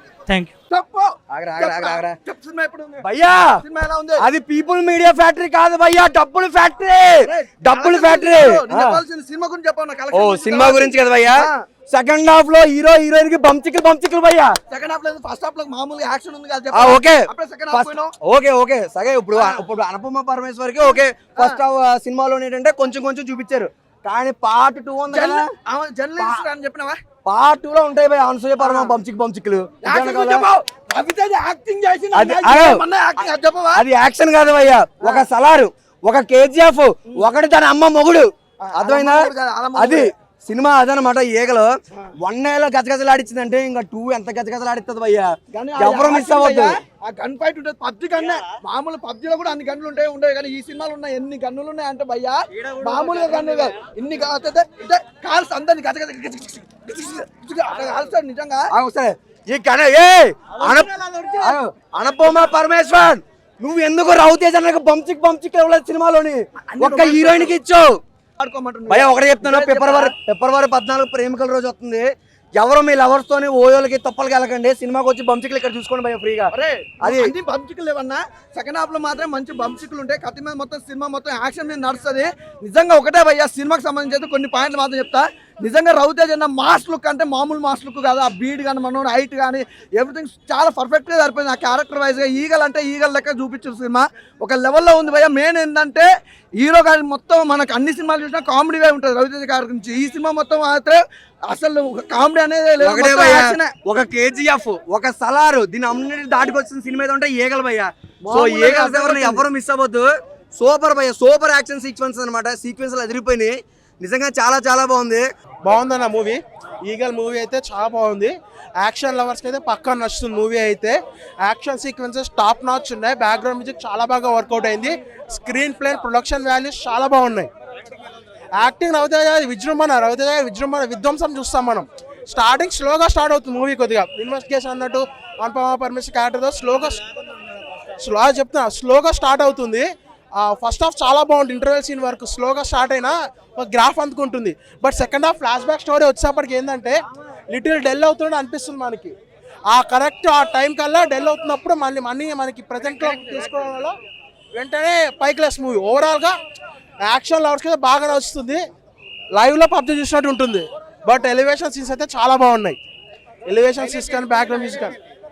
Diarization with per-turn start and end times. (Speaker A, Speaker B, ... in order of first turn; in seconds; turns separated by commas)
Speaker A: 0.7-4.2, Speaker B: 1.3-2.2, Speaker B: 3.0-3.6, Speaker B: 4.2-9.0, Speaker A: 7.2-11.7, Speaker B: 10.1-14.5, Speaker A: 14.7-18.1, Speaker B: 16.7-25.5, Speaker A: 19.3-19.6, Speaker A: 20.8-21.6, Speaker A: 25.1-27.0, Speaker B: 26.2-26.4, Speaker B: 27.2-30.5, Speaker A: 28.6-29.0, Speaker A: 29.8-33.9, Speaker B: 32.1-32.9, Speaker B: 33.7-46.8, Speaker A: 35.0-35.2, Speaker A: 38.6-40.1, Speaker A: 45.5-58.7, Speaker B: 58.7-60.9, Speaker A: 60.8-61.4, Speaker B: 61.4-68.0, Speaker A: 66.7-67.6, Speaker A: 68.4-70.1, Speaker B: 68.9-77.3, Speaker A: 76.5-96.1, Speaker A: 96.6-103.8, Speaker B: 102.8-115.2, Speaker A: 108.3-109.5, Speaker C: 115.6-127.5, Speaker C: 128.5-137.0, Speaker C: 138.0-147.0, Speaker C: 147.5-149.1, Speaker C: 149.7-153.9, Speaker C: 154.5-156.4, Speaker C: 157.0-158.6, Speaker C: 159.3-162.8, Speaker C: 163.5-165.0